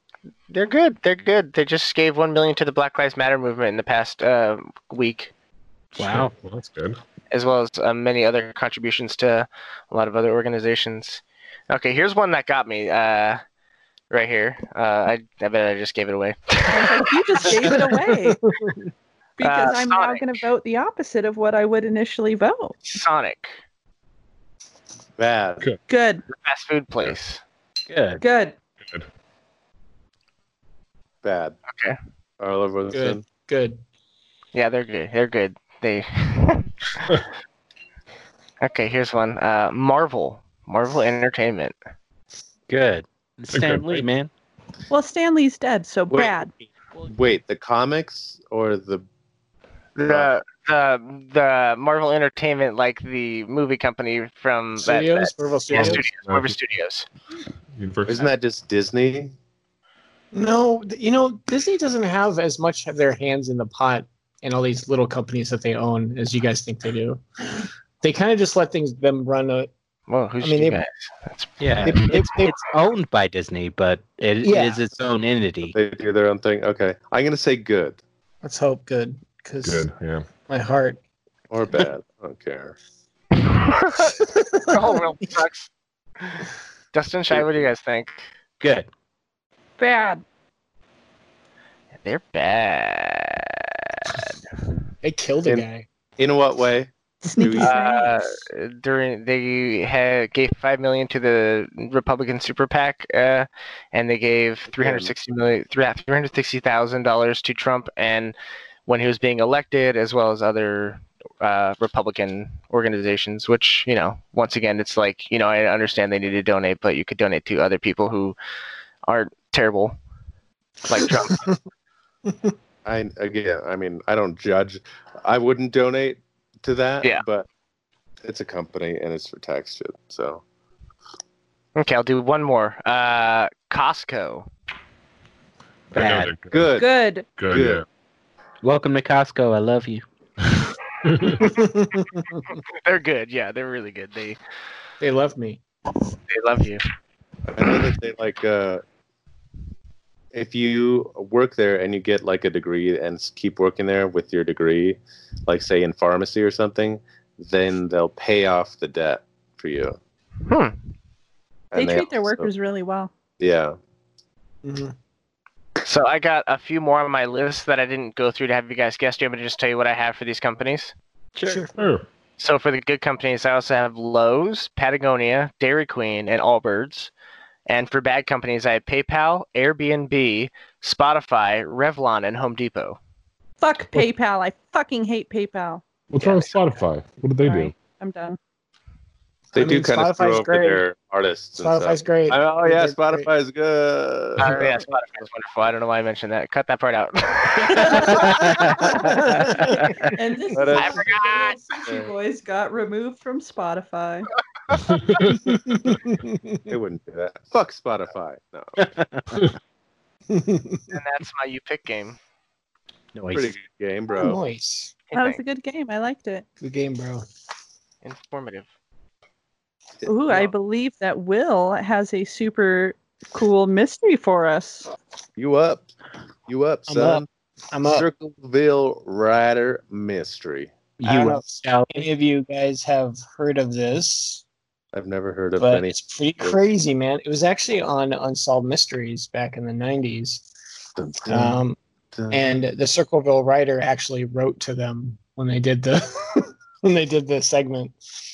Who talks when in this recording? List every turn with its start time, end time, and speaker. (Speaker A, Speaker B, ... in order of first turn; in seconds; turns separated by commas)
Speaker A: 0.5-5.3, Speaker B: 6.0-6.3, Speaker C: 6.0-7.0, Speaker A: 7.3-13.4, Speaker A: 14.1-17.5, Speaker D: 16.7-18.4, Speaker E: 18.5-18.9, Speaker D: 19.4-22.8, Speaker A: 19.4-20.3, Speaker A: 22.9-23.5, Speaker F: 25.2-25.7, Speaker D: 25.9-26.2, Speaker A: 26.3-27.4, Speaker B: 27.9-28.2, Speaker D: 28.2-28.6, Speaker F: 31.2-31.6, Speaker A: 31.7-32.0, Speaker F: 32.4-33.2, Speaker E: 32.9-33.8, Speaker A: 34.5-37.1, Speaker A: 38.6-41.7, Speaker B: 42.7-44.3, Speaker C: 43.5-44.1, Speaker D: 44.9-46.5, Speaker F: 47.0-49.0, Speaker A: 50.0-57.0, Speaker F: 50.1-50.3, Speaker E: 54.8-56.0, Speaker C: 55.7-56.5, Speaker C: 57.8-58.2, Speaker F: 58.1-59.3, Speaker E: 60.3-69.7, Speaker A: 70.1-71.6, Speaker E: 70.4-70.8, Speaker B: 71.6-75.8, Speaker E: 71.8-72.6, Speaker E: 74.4-74.8, Speaker F: 75.7-78.0, Speaker E: 78.4-79.9, Speaker C: 79.6-80.3, Speaker E: 80.5-81.0, Speaker F: 81.5-82.8, Speaker A: 83.8-85.7, Speaker E: 84.2-85.0, Speaker A: 86.9-88.2, Speaker B: 88.6-88.9, Speaker D: 89.8-90.2, Speaker A: 92.0-94.2, Speaker E: 95.0-95.8, Speaker F: 96.2-97.8, Speaker D: 97.2-98.3, Speaker A: 97.6-108.3, Speaker F: 104.7-105.1, Speaker A: 108.9-118.4, Speaker A: 119.1-120.0, Speaker A: 120.9-121.5, Speaker E: 121.0-121.6, Speaker E: 122.3-122.5, Speaker F: 122.8-127.5, Speaker F: 128.2-130.4, Speaker A: 131.8-134.5, Speaker B: 135.9-136.3, Speaker C: 135.9-136.7, Speaker F: 136.5-136.9, Speaker D: 136.8-137.3, Speaker C: 137.4-137.8, Speaker F: 137.5-137.8, Speaker B: 138.6-140.0, Speaker C: 141.0-141.5, Speaker E: 141.4-142.5, Speaker A: 142.8-144.4, Speaker E: 145.0-145.6, Speaker A: 146.3-146.8, Speaker F: 147.5-148.8, Speaker F: 150.3-160.0, Speaker A: 160.5-160.8, Speaker F: 161.7-162.5, Speaker D: 161.8-163.1, Speaker F: 163.4-163.8, Speaker E: 164.6-164.9, Speaker A: 165.8-170.9, Speaker B: 171.4-171.7, Speaker E: 171.4-171.7, Speaker C: 171.8-172.1, Speaker A: 172.4-177.1, Speaker A: 177.7-183.0, Speaker D: 183.6-185.8, Speaker C: 186.1-187.7, Speaker A: 186.2-186.5, Speaker D: 187.4-188.4, Speaker E: 189.5-190.8, Speaker F: 189.6-195.0, Speaker E: 191.6-193.3, Speaker A: 194.4-198.3, Speaker D: 197.8-198.2, Speaker B: 198.1-199.8, Speaker D: 198.8-199.5, Speaker D: 200.2-204.3, Speaker F: 200.5-201.2, Speaker A: 200.7-201.6, Speaker F: 201.8-202.1, Speaker C: 204.8-205.5, Speaker E: 205.3-206.6, Speaker F: 206.7-208.9, Speaker B: 208.8-209.4, Speaker E: 210.3-210.9, Speaker A: 210.9-212.2, Speaker B: 213.1-213.5, Speaker F: 213.3-214.4, Speaker E: 214.2-215.0, Speaker A: 215.1-215.4, Speaker D: 215.1-216.4, Speaker E: 216.6-217.2, Speaker A: 218.0-218.7, Speaker F: 220.0-220.5, Speaker D: 220.1-224.9, Speaker F: 225.4-225.9, Speaker F: 226.5-227.3, Speaker E: 226.9-228.1, Speaker F: 227.8-230.7, Speaker E: 231.0-234.4, Speaker F: 234.9-236.6, Speaker E: 235.6-240.5, Speaker F: 241.0-241.6, Speaker E: 241.3-241.8, Speaker F: 242.2-242.4, Speaker E: 242.3-248.0